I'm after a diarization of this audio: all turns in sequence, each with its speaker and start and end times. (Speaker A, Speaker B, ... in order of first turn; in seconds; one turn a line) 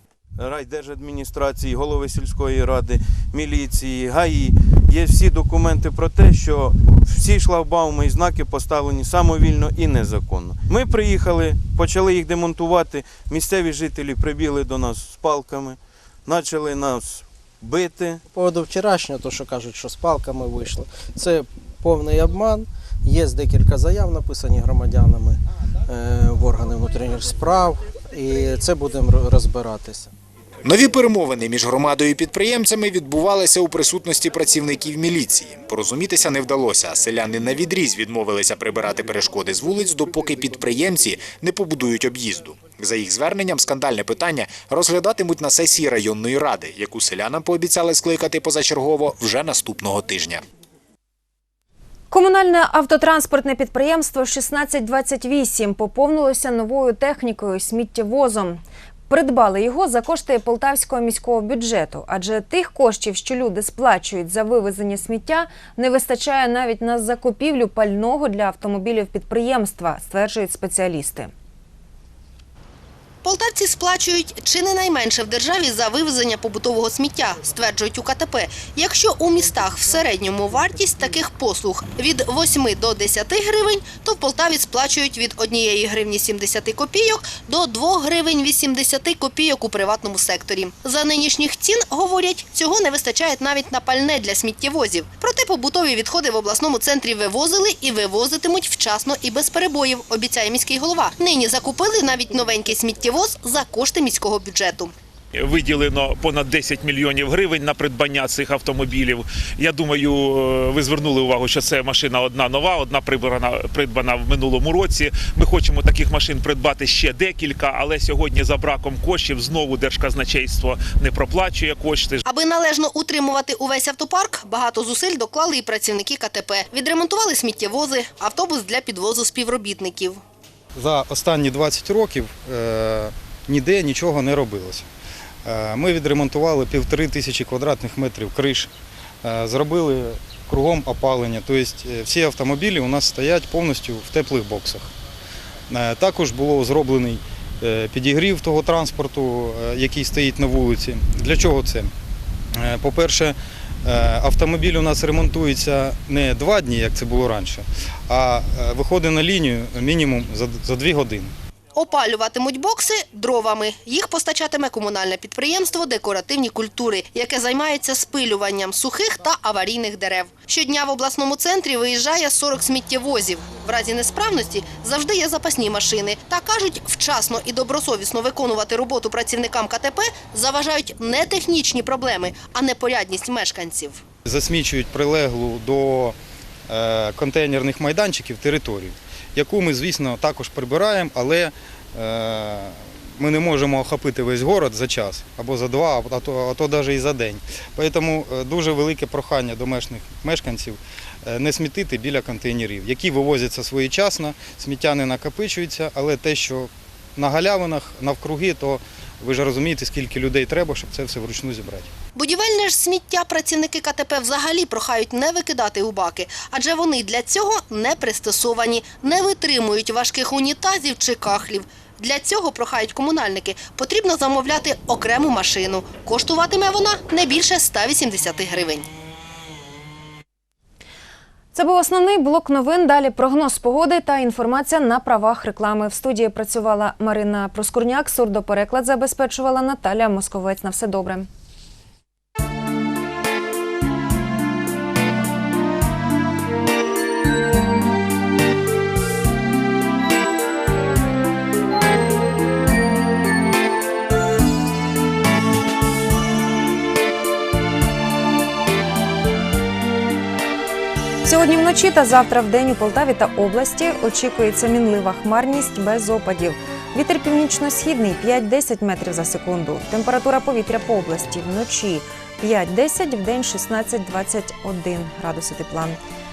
Speaker A: 0.4-18.2
Speaker B: 18.3-30.1
Speaker C: 30.6-50.4
Speaker D: 52.1-71.3
Speaker E: 73.2-104.9
Speaker F: 105.5-122.2
Speaker E: 122.2-130.2
Speaker G: 130.8-134.8
Speaker G: 135.4-138.7
Speaker G: 139.2-144.9
Speaker G: 145.7-151.9
Speaker G: 152.6-161.3
Speaker E: 161.7-184.0
Speaker G: 184.2-186.2
Speaker G: 186.7-211.9
Speaker E: 212.2-228.8
Speaker D: 231.5-241.3
Speaker D: 261.2-276.0